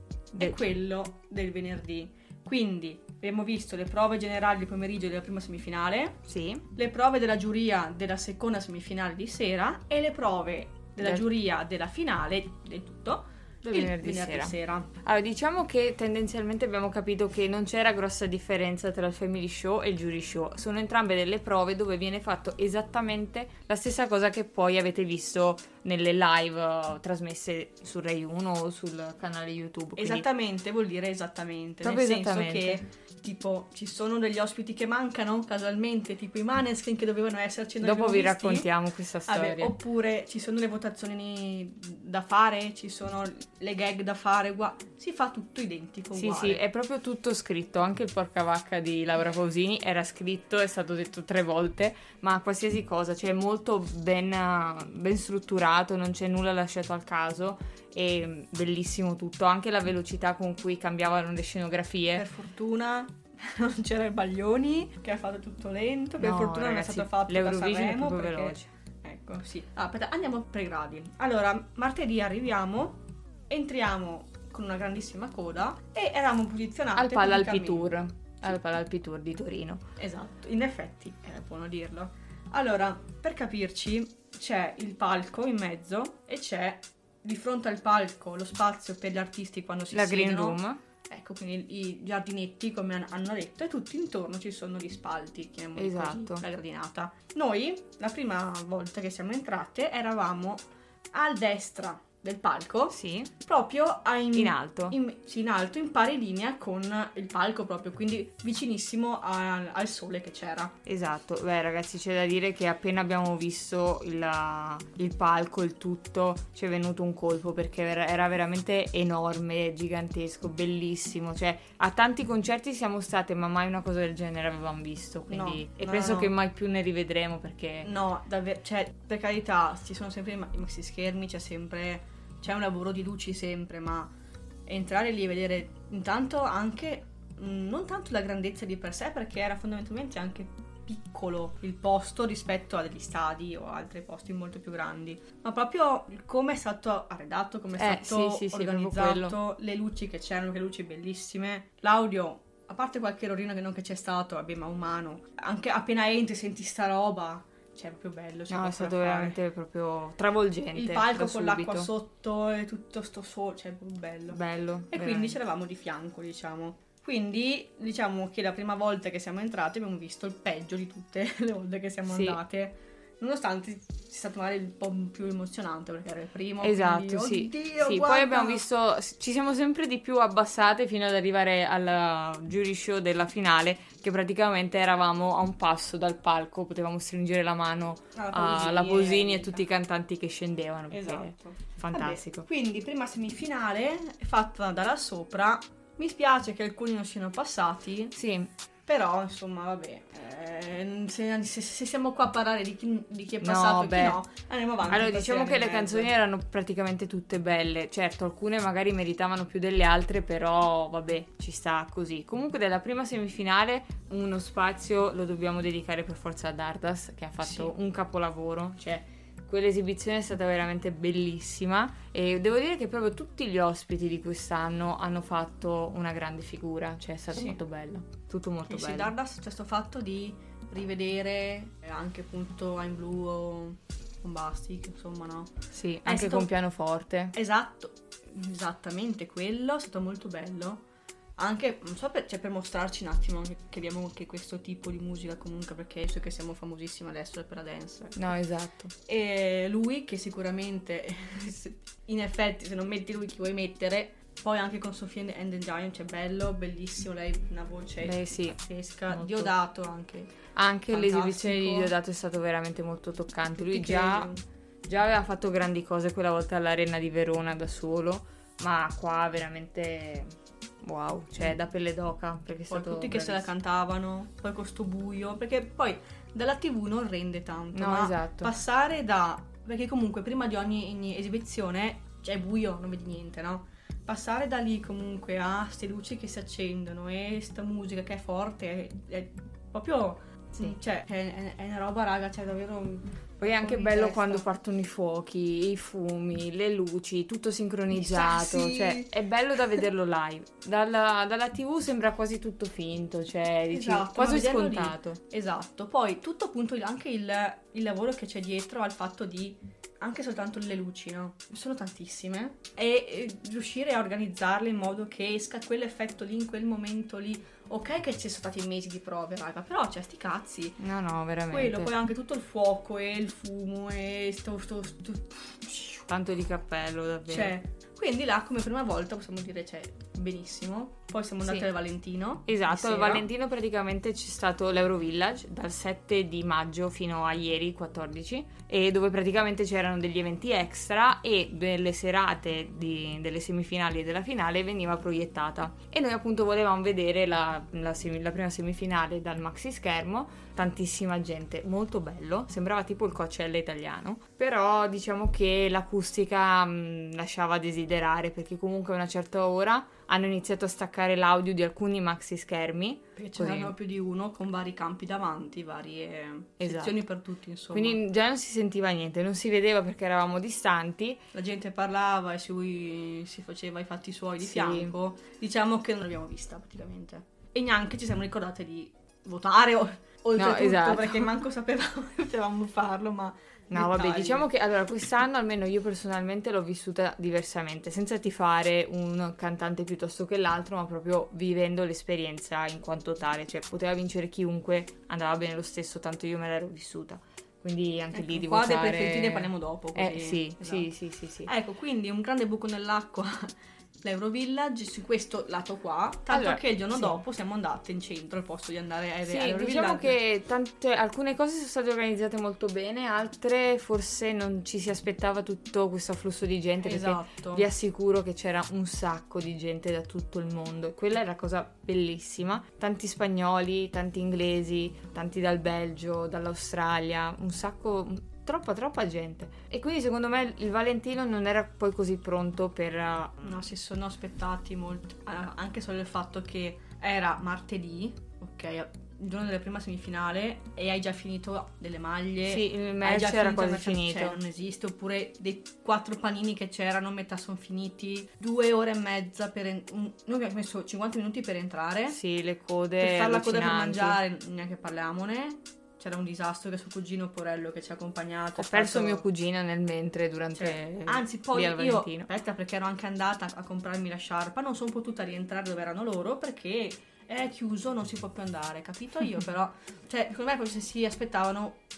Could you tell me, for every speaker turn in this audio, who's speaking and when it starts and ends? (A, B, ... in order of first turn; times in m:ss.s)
0:00.4-0:06.2 A
0:06.3-0:06.6 B
0:06.7-0:14.9 A
0:13.6-0:30.3 B
0:30.0-0:38.7 A
0:31.8-0:32.8 B
0:37.8-0:39.8 B
0:39.3-0:46.6 A
0:46.1-1:02.2 B
1:02.1-1:17.9 A
1:06.2-1:08.7 B
1:17.0-1:19.8 B
1:20.0-1:50.8 A
1:29.9-1:30.8 B
1:35.8-1:36.4 B
1:42.9-1:43.3 B
1:44.3-1:45.0 B
1:50.8-2:07.9 B
2:05.3-2:06.3 A
2:07.8-2:14.1 A
2:14.7-2:39.4 A
2:27.8-2:29.4 B
2:38.5-2:41.9 B
2:40.7-2:58.6 A
2:44.3-2:45.4 B
2:52.1-2:52.4 B
2:56.6-3:12.4 B
3:08.1-3:09.6 A
3:10.9-3:18.1 A
3:18.1-3:18.5 B
3:18.8-3:26.1 A
3:23.4-3:24.2 B
3:24.9-3:49.1 B
3:37.4-3:37.7 A
3:47.3-3:47.6 A
3:48.7-3:55.5 A
3:55.7-3:57.3 B
3:56.0-3:56.5 A
3:57.3-4:00.8 A
4:01.4-4:08.4 A
4:08.2-4:08.9 B
4:09.0-4:20.3 A
4:18.0-4:18.6 B
4:19.1-4:19.5 B
4:20.5-4:24.3 B
4:20.9-4:21.9 A
4:23.6-4:24.4 A
4:24.9-4:33.5 B
4:32.7-4:54.5 A
4:37.7-4:38.5 B
4:53.4-5:05.2 B
4:57.9-4:59.1 A
5:03.7-5:20.8 A
5:20.8-5:21.9 B
5:21.5-5:26.1 A
5:26.1-5:27.6 B
5:27.3-5:33.3 A
5:32.5-6:03.7 B
6:03.2-6:08.0 A
6:06.6-6:07.0 B
6:07.7-6:11.2 B
6:11.3-6:24.5 A
6:14.4-6:14.9 B
6:20.4-6:21.3 B
6:23.7-6:41.5 B
6:38.1-6:40.9 A
6:41.4-6:50.2 A
6:46.3-6:47.2 B
6:49.3-7:13.6 B
6:56.8-6:57.6 A
7:13.4-7:32.2 A
7:22.4-7:24.4 B
7:32.1-7:34.2 B
7:33.0-7:39.2 A
7:38.6-7:42.3 B
7:40.5-7:51.8 A